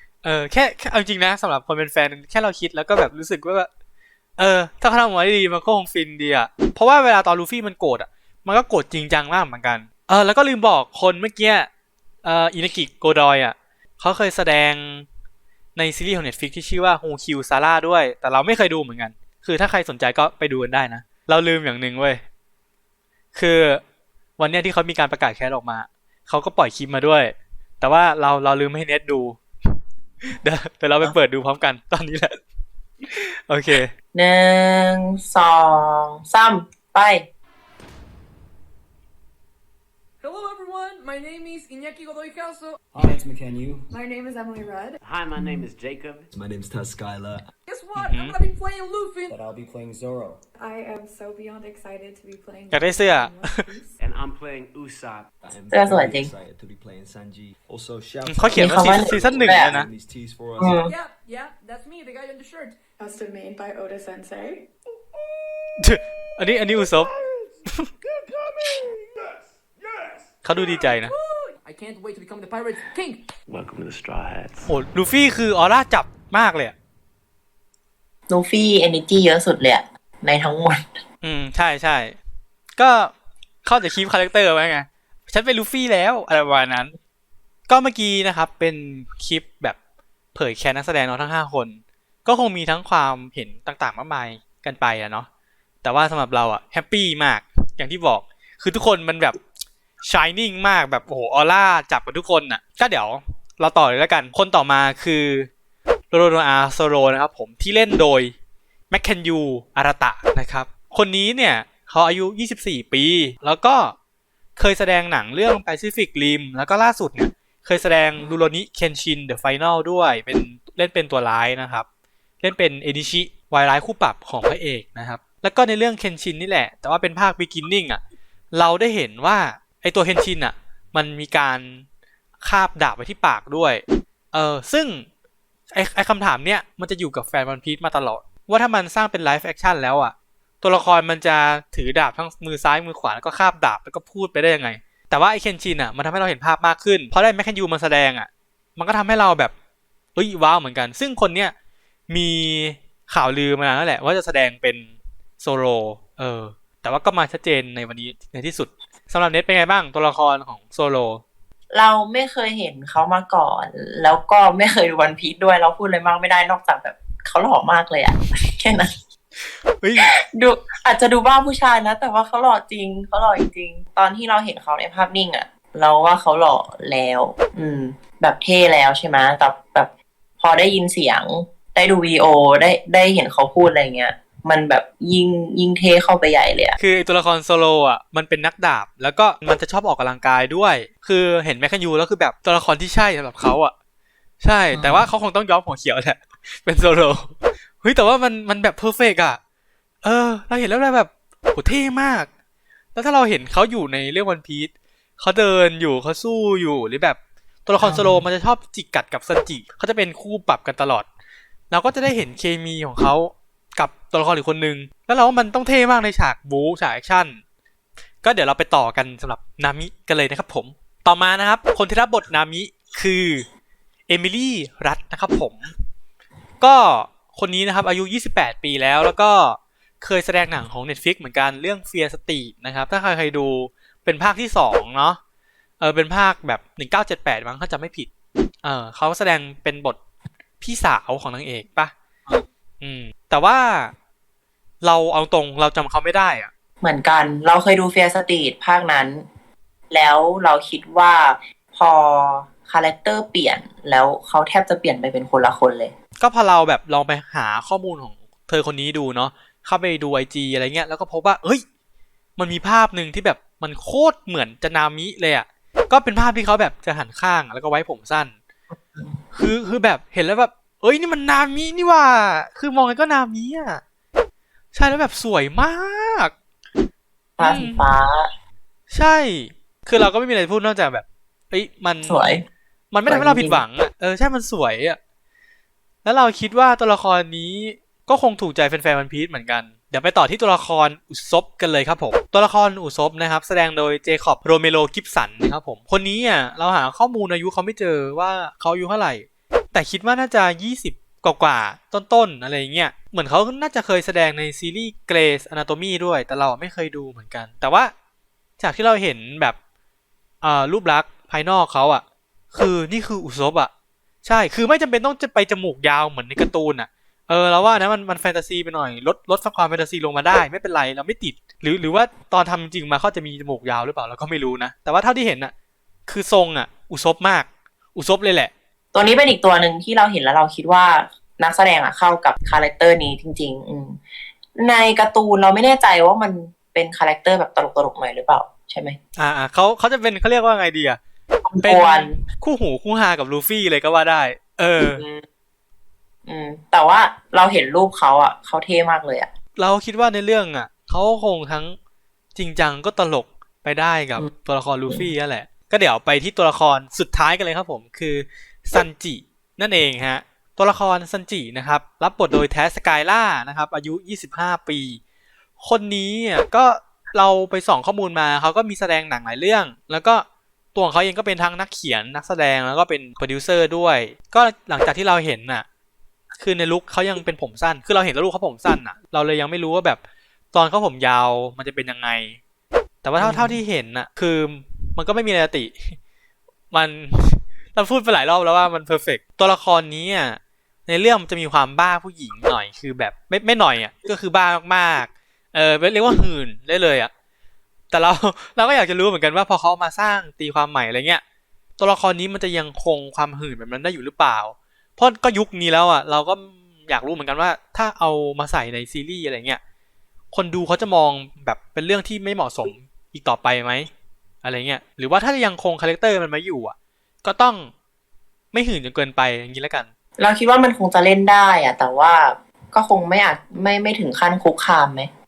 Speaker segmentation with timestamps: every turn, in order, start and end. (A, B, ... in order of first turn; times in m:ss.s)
0:00.2-0:03.7 A
0:04.4-0:11.7 A
0:12.2-0:15.1 A
0:15.8-0:22.2 A
0:23.3-0:23.8 A
0:24.4-0:29.4 A
0:30.4-0:32.4 A
0:33.1-0:33.9 A
0:34.1-0:37.3 B
0:40.2-0:42.8 C
0:42.9-0:43.9 D
0:43.9-0:45.0 E
0:45.0-0:46.3 F
0:45.4-0:45.6 B
0:46.3-0:47.5 D
0:47.7-0:49.4 C
0:48.0-0:48.4 A
0:49.3-0:50.4 D
0:50.6-0:54.0 E
0:52.7-0:53.6 A
0:54.0-0:55.3 F
0:55.4-1:00.8 D
0:55.7-0:56.3 B
0:58.3-0:59.9 A
0:58.6-0:59.8 B
1:00.6-1:00.9 B
1:00.8-1:02.8 C
1:03.0-1:04.6 E
1:05.1-1:10.9 D
1:05.8-1:07.1 A
1:10.4-1:11.2 A
1:10.9-1:13.2 C
1:13.5-1:14.7 F
1:14.7-1:16.8 A
1:18.3-1:21.0 B
1:21.2-1:22.2 A
1:22.8-1:23.1 A
1:23.6-1:26.9 A
1:27.7-1:29.8 A
1:30.3-1:35.3 A
1:35.8-1:39.4 A
1:40.0-1:45.5 A
1:46.1-1:48.3 A
1:48.9-1:54.0 A
1:54.6-2:01.9 A
2:02.4-2:08.0 A
2:08.5-2:11.8 A
2:12.4-2:15.1 A
2:15.7-2:29.5 A
2:30.2-2:31.5 A
2:32.1-2:34.9 A
2:35.4-2:41.2 A
2:41.7-2:48.9 B
2:49.8-2:50.1 A
2:50.0-3:06.8 B
3:06.8-3:13.7 A
3:14.4-3:19.4 A
3:14.7-3:15.1 B
3:20.0-3:22.3 A
3:23.0-3:31.1 A
3:27.8-3:28.3 B
3:31.7-3:37.4 A
3:38.2-3:43.5 A
3:44.1-3:45.7 A
3:46.6-3:55.2 A
3:55.8-3:58.1 A
3:58.6-4:00.0 A
4:00.6-4:01.9 A
4:02.8-4:03.9 A
4:04.8-4:06.5 A
4:06.8-4:09.2 B
4:09.9-4:16.0 B
4:16.2-4:21.6 A
4:22.4-4:28.3 A
4:29.3-4:33.8 A
4:34.7-4:36.3 A
4:37.4-4:38.3 B
4:37.4-4:37.8 A
4:38.9-4:42.2 A
4:42.0-4:42.4 B
4:42.9-4:45.0 A
4:43.1-4:43.6 B
4:46.0-5:07.9 A
5:08.6-5:09.6 A
5:10.4-5:13.7 A
5:14.2-5:25.5 A
5:26.1-5:28.5 A
5:28.9-5:34.0 B
5:34.6-5:39.0 B
5:39.2-5:41.0 A
5:41.4-5:42.2 B
5:41.6-5:45.0 A
5:45.0-5:45.2 B
5:46.3-5:49.3 B
5:49.6-5:51.8 A
5:52.4-6:05.0 A
6:05.6-6:15.6 A
6:16.4-6:20.0 A
6:20.5-6:22.4 A
6:23.0-6:26.0 A
6:23.2-6:23.6 B
6:26.7-6:37.1 A
6:37.9-6:41.2 A
6:41.8-6:49.6 A
6:50.3-6:53.9 A
6:54.4-6:57.7 A
6:58.5-6:59.9 A
7:00.2-7:05.1 B